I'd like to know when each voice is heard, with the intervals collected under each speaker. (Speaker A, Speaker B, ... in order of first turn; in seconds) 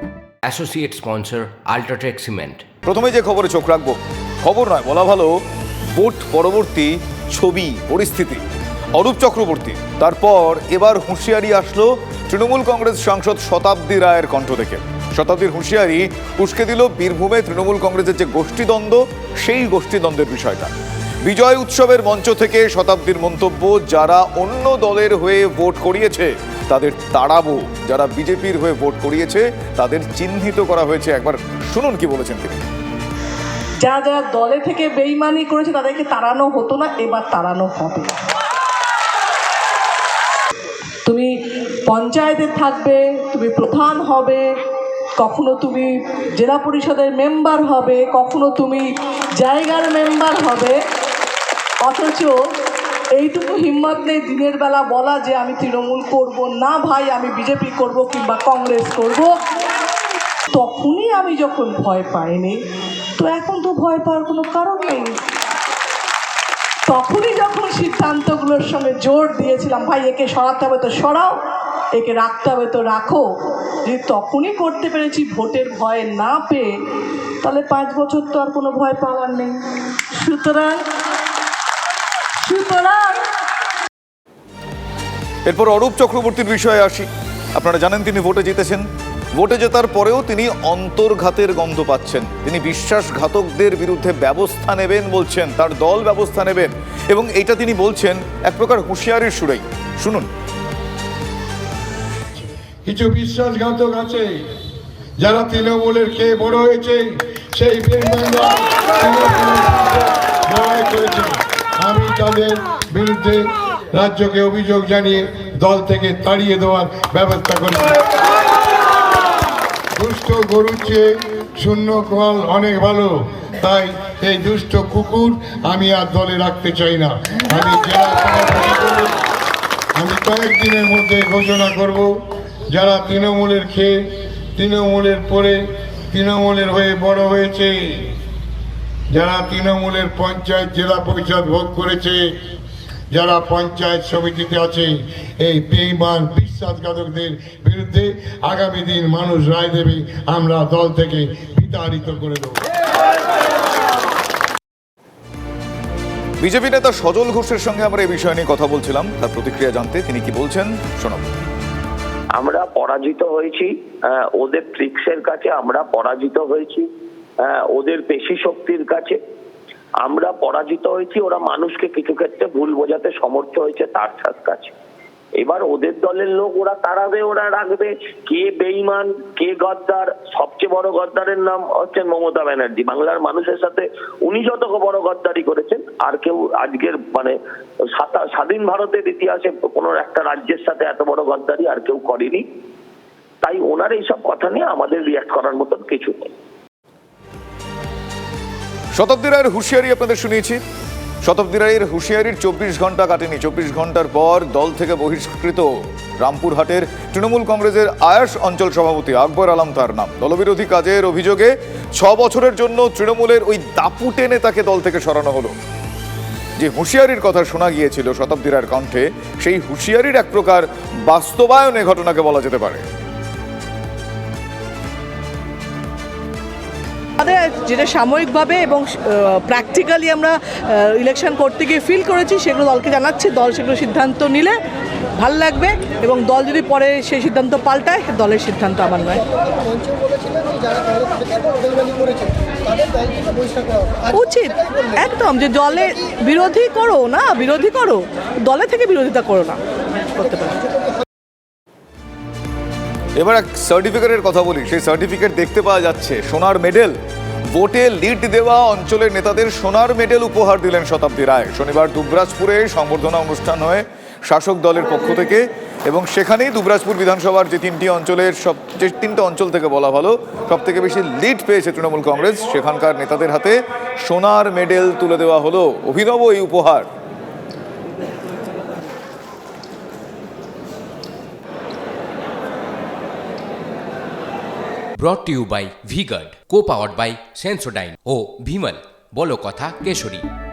Speaker A: 0.5-2.6, 285.0-290.2
Speaker B: 2.9-5.4, 5.9-8.4, 8.9-20.7, 21.2-32.6, 85.5-100.3, 156.4-161.3, 198.9-200.6, 201.2-215.6, 216.6-222.8, 253.2-257.0, 257.5-276.9
Speaker C: 33.8-38.1, 41.9-44.5, 45.2-50.8, 51.9-52.3, 53.2-59.3, 60.5-62.6, 63.2-65.1, 66.9-71.4, 72.0-73.3, 73.9-76.7, 77.4-79.6, 80.2-80.8, 82.4-83.2, 227.2-234.6, 235.2-239.3, 241.2-241.9, 244.1-249.6, 250.1-250.7
Speaker D: 102.9-104.3, 105.2-118.0, 120.0-129.2, 130.0-132.1, 132.7-134.0, 134.6-135.6, 136.1-138.1, 139.1-142.2, 143.1-152.6
Speaker E: 162.4-166.8, 167.4-169.2, 170.0-174.7, 175.4-187.3, 187.9-192.4, 193.4-196.3